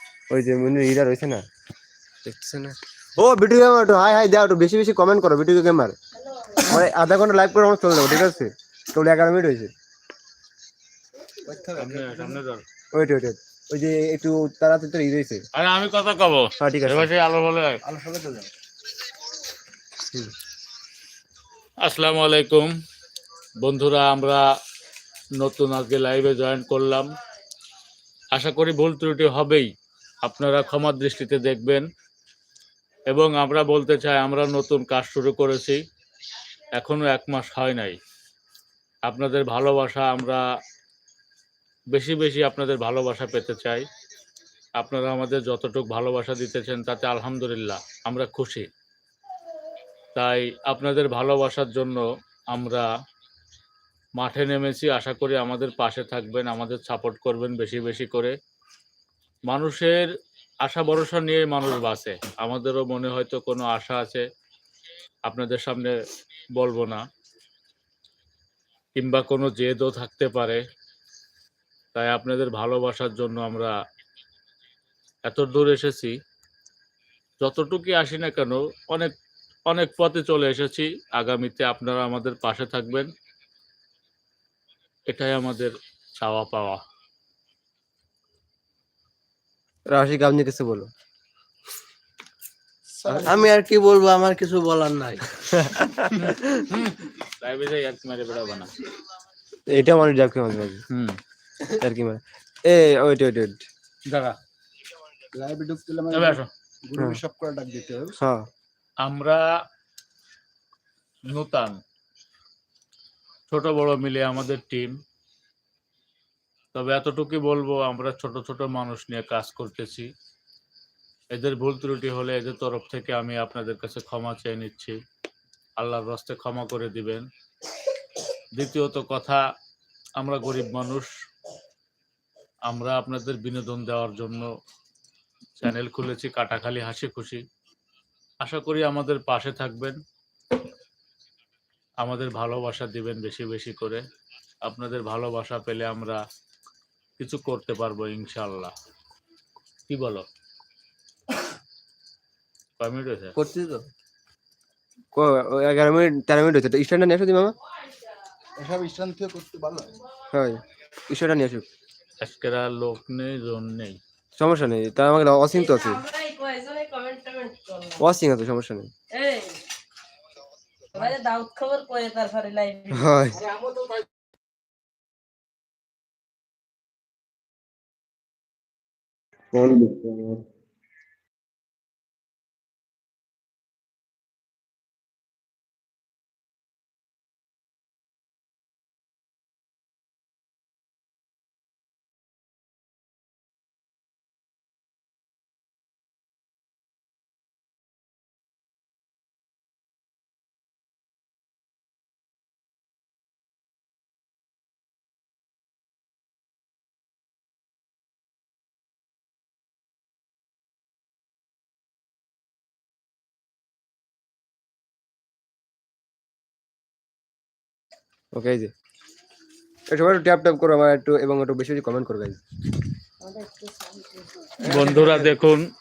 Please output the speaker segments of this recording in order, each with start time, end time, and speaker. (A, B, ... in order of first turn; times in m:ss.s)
0:00.3-0:01.4 A
0:02.2-0:06.0 A
0:06.6-0:09.7 A
0:11.4-0:12.4 A
0:11.8-0:12.6 B
0:12.9-0:15.4 A
0:15.6-0:17.8 B
0:16.6-0:17.1 A
0:17.9-0:18.5 A
0:21.8-0:22.7 B
0:23.6-0:24.4 B
0:25.4-0:27.1 B
0:28.3-0:29.7 B
0:30.2-0:31.8 B
0:33.1-0:35.8 B
0:36.8-0:38.0 B
0:39.0-0:40.4 B
0:41.9-0:43.9 B
0:44.8-0:48.7 B
0:50.1-0:52.9 B
0:54.2-0:58.3 B
0:59.5-1:00.0 B
1:00.6-1:04.2 B
1:05.2-1:05.9 B
1:06.6-1:07.0 B
1:08.9-1:10.6 B
1:11.9-1:13.7 B
1:15.2-1:16.1 B
1:17.4-1:19.1 B
1:19.7-1:23.1 B
1:25.1-1:26.8 B
1:29.9-1:30.9 A
1:33.0-1:33.4 C
1:33.1-1:33.4 A
1:33.2-1:35.7 D
1:35.6-1:36.1 A
1:36.3-1:38.7 B
1:39.7-1:40.8 A
1:40.9-1:41.2 B
1:41.8-1:43.6 A
1:44.1-1:44.4 B
1:45.3-1:48.1 C
1:46.1-1:46.5 B
1:48.2-1:48.5 A
1:49.0-1:49.4 B
1:51.3-1:51.8 B
1:53.5-1:55.0 B
1:56.7-2:00.1 B
2:01.3-2:05.0 B
2:05.8-2:07.2 B
2:08.6-2:09.4 B
2:10.2-2:11.1 B
2:12.7-2:14.5 B
2:15.6-2:17.4 B
2:18.4-2:20.0 B
2:22.0-2:24.0 B
2:24.6-2:26.2 B
2:27.2-2:28.7 B
2:29.9-2:30.2 B
2:32.8-2:33.3 B
2:33.3-2:33.8 D
2:35.1-2:37.5 A
2:38.6-2:39.9 C
2:40.3-2:41.6 A
2:42.2-2:44.0 B
2:44.4-2:46.0 A
2:45.5-2:48.0 E
2:48.0-2:48.9 A
2:49.1-2:49.6 E
2:50.9-2:53.1 E
2:52.9-2:53.4 A
2:53.5-2:54.0 C
2:59.5-3:00.4 A
3:38.3-3:38.7 A
3:39.9-3:42.4 A
3:43.2-3:44.7 E
3:44.6-3:45.4 A
3:44.6-3:45.6 B